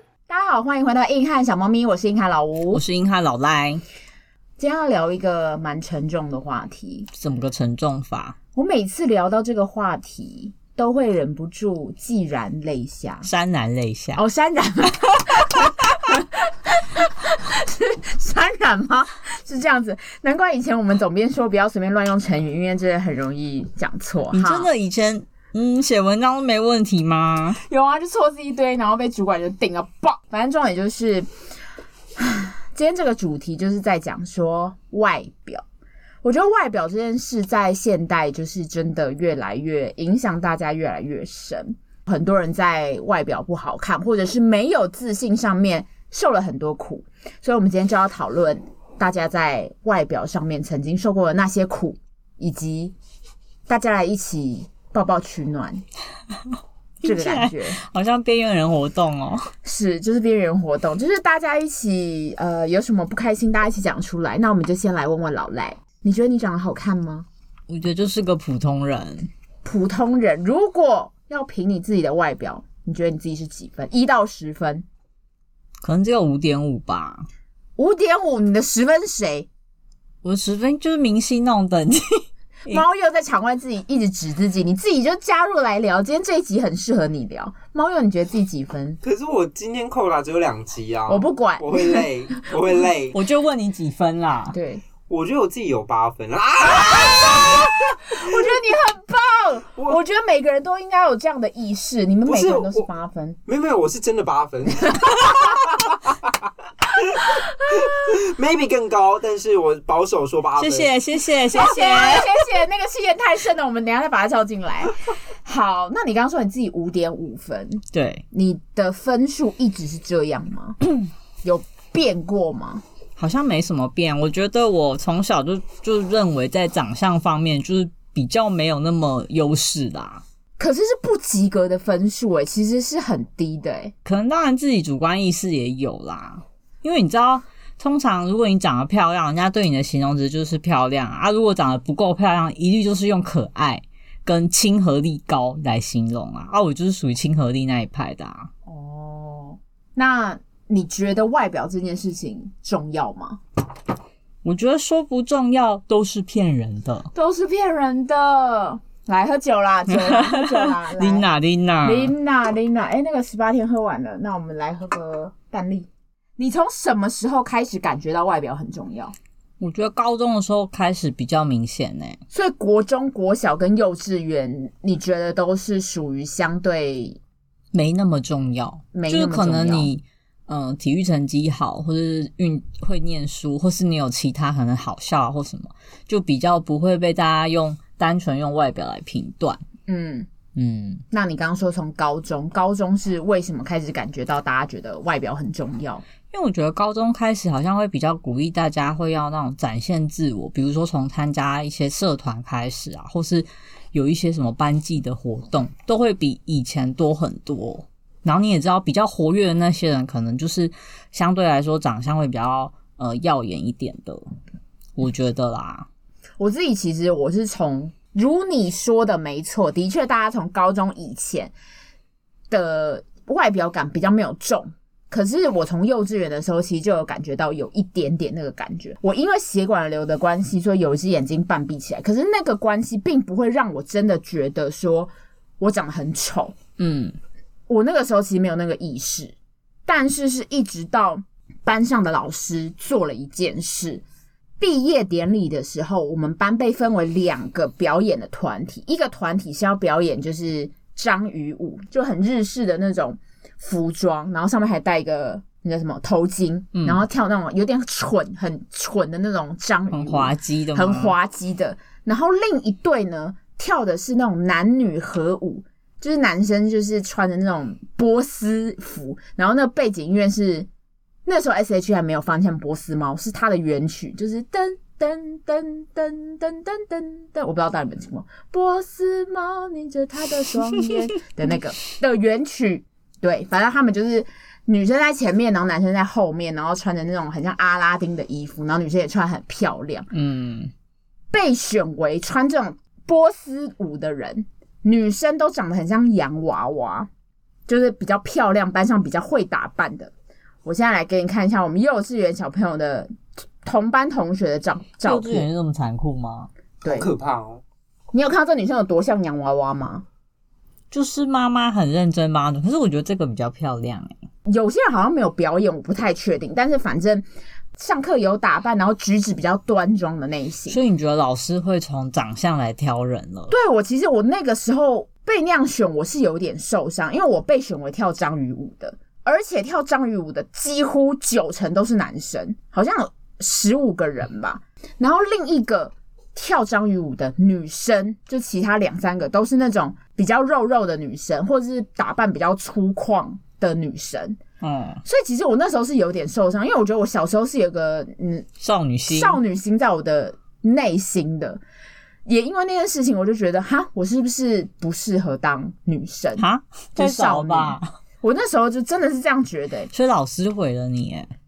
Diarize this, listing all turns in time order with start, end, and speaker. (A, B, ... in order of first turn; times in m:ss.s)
0:00.3-0:02.8 A
0:02.7-0:03.8 B
0:04.6-0:07.1 A
0:07.1-0:08.4 B
0:08.6-0:13.3 A
0:13.2-0:14.2 B
0:14.2-0:24.7 A
0:24.3-0:27.6 B
0:27.6-0:31.3 A
0:32.2-0:35.6 A
0:36.2-0:53.0 A
0:53.7-0:55.8 A
0:57.0-0:59.5 B
0:57.0-0:57.8 A
0:59.6-1:07.2 A
1:07.7-1:09.3 B
1:09.6-1:14.9 A
1:15.8-1:17.2 B
1:17.8-1:19.5 A
1:20.2-1:22.8 B
1:22.7-1:29.0 A
1:29.0-1:33.2 C
1:31.1-1:32.0 A
1:33.1-1:34.6 B
1:34.5-1:34.8 A
1:35.1-1:38.4 C
1:37.1-1:37.4 A
1:38.0-1:43.4 A
1:42.2-1:42.9 C
1:43.4-1:46.3 C
1:46.9-1:51.0 C
1:50.6-1:52.3 B
1:51.6-2:00.9 A
1:57.9-1:58.2 B
2:01.4-2:02.8 A
2:03.2-2:10.2 B
2:10.6-2:13.9 A
2:14.0-2:28.5 B
2:28.7-2:33.4 A
2:34.4-2:37.1 B
2:37.1-2:41.3 A
2:39.9-2:42.1 B
2:41.8-2:49.2 A
2:49.6-2:52.2 B
2:52.3-2:57.2 A
2:57.7-3:09.6 B
2:58.9-2:59.9 A
3:09.9-3:10.3 A
3:10.6-3:11.0 B
3:11.1-3:16.0 A
3:16.3-3:34.2 B
3:35.0-3:35.9 B
3:36.4-3:41.5 A
3:42.5-3:56.6 A
3:56.8-3:57.2 B
3:57.7-3:59.3 A
3:59.9-4:04.0 A
4:04.6-4:30.7 A
4:16.8-4:17.1 B
4:19.9-4:21.2 B
4:31.2-4:50.1 A
4:50.1-4:50.7 B
4:51.3-4:57.1 A
4:57.7-5:00.1 A
5:00.6-5:03.1 A
5:03.6-5:05.5 A
5:05.0-5:06.5 B
5:06.8-5:07.6 C
5:08.1-5:10.0 A
5:10.9-5:14.2 B
5:14.4-5:20.8 A
5:20.7-5:23.6 B
5:23.5-5:44.4 A
5:44.6-5:45.0 B
5:45.0-5:48.5 A
5:48.6-5:49.4 B
5:49.1-5:51.6 A
5:52.2-5:59.9 A
5:56.4-5:57.9 B
5:59.9-6:01.3 B